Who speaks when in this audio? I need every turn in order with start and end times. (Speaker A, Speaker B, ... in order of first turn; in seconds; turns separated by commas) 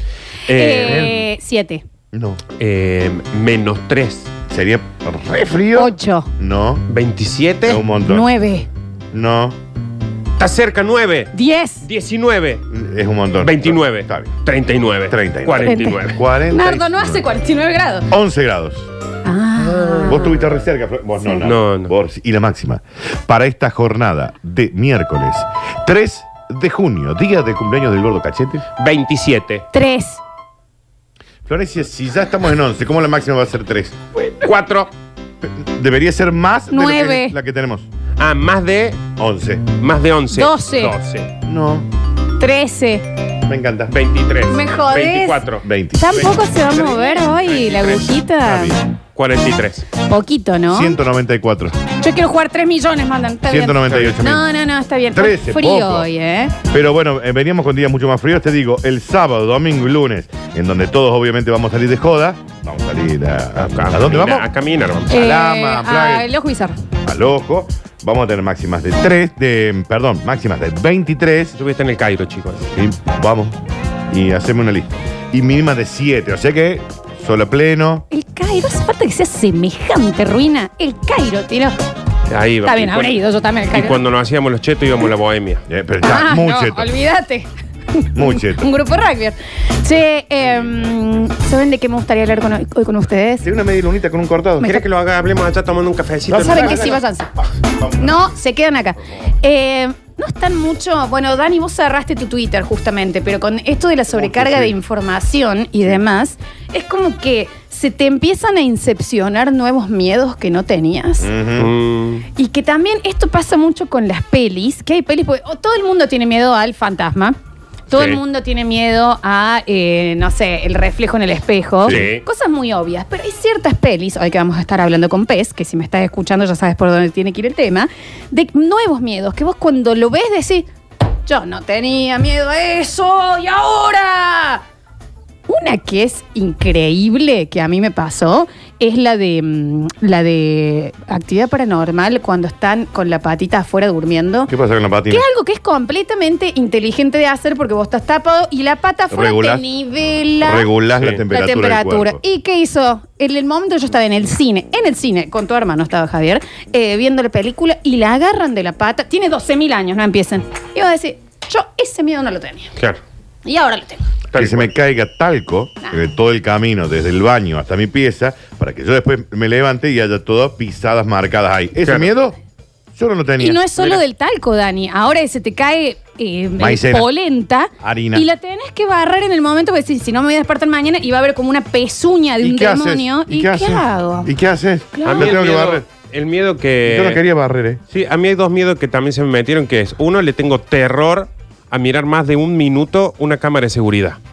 Speaker A: 0.5-1.1, Speaker B: 0.5-1.8, Speaker C: 0.8-1.1, Speaker C: 2.1-2.4, Speaker A: 2.6-4.3, Speaker C: 4.5-6.8, Speaker B: 5.7-6.3, Speaker A: 6.9-7.8, Speaker C: 7.6-8.3, Speaker B: 8.0-8.7, Speaker C: 9.1-9.6, Speaker A: 10.4-12.6, Speaker B: 11.3-11.8, Speaker C: 12.7-14.3, Speaker A: 13.4-16.2, Speaker C: 15.1-17.2, Speaker B: 15.6-18.1, Speaker C: 18.1-18.9, Speaker B: 19.2-20.3, Speaker A: 19.7-20.3, Speaker C: 20.0-28.6, Speaker A: 21.4-21.9, Speaker A: 28.8-29.6, Speaker B: 29.7-30.2, Speaker C: 31.4-34.0, Speaker A: 34.4-34.9, Speaker C: 35.4-37.9, Speaker B: 36.7-37.4, Speaker A: 38.2-39.0, Speaker C: 39.2-39.7, Speaker A: 39.8-41.3, Speaker B: 40.3-41.0, Speaker C: 41.5-41.9, Speaker B: 42.4-43.0, Speaker C: 43.5-43.9, Speaker A: 43.9-48.1, Speaker B: 44.5-48.7, Speaker C: 45.6-46.3, Speaker C: 48.4-48.8, Speaker A: 49.1-49.9, Speaker B: 50.0-51.0, Speaker C: 50.7-51.8, Speaker B: 52.0-56.5, Speaker C: 53.5-54.5, Speaker A: 53.9-54.2, Speaker C: 55.1-56.1, Speaker C: 56.6-64.5, Speaker A: 63.5-65.1, Speaker C: 65.1-66.3, Speaker B: 65.1-66.8, Speaker C: 67.0-71.5, Speaker A: 71.5-72.7, Speaker C: 72.7-73.6, Speaker C: 74.1-78.0, Speaker B: 78.1-81.8, Speaker A: 82.3-83.2, Speaker B: 82.6-84.0, Speaker A: 83.7-85.6, Speaker C: 85.7-86.9, Speaker B: 86.0-93.5, Speaker C: 88.1-88.7, Speaker C: 90.4-90.9, Speaker C: 93.4-94.8, Speaker A: 94.6-97.0, Speaker C: 96.3-98.3, Speaker B: 96.3-97.3, Speaker B: 98.0-111.3, Speaker C: 104.1-104.7, Speaker C: 111.2-111.7, Speaker A: 111.5-112.2, Speaker B: 112.3-117.4, Speaker B: 117.9-130.7, Speaker A: 117.9-118.2, Speaker C: 121.8-122.1, Speaker A: 121.8-122.2, Speaker B: 131.2-134.6, Speaker B: 135.5-144.5, Speaker C: 144.5-145.2, Speaker B: 145.1-150.7, Speaker C: 149.1-149.6, Speaker C: 150.4-152.2, Speaker B: 151.3-162.7, Speaker B: 163.4-164.1, Speaker A: 164.3-164.7, Speaker C: 164.3-172.3, Speaker A: 171.8-172.1, Speaker C: 172.9-173.6, Speaker B: 173.4-184.3, Speaker C: 176.6-177.1, Speaker C: 177.8-178.3, Speaker C: 182.4-185.8, Speaker B: 184.9-185.4, Speaker A: 185.0-187.2, Speaker C: 186.8-187.8, Speaker A: 187.9-194.2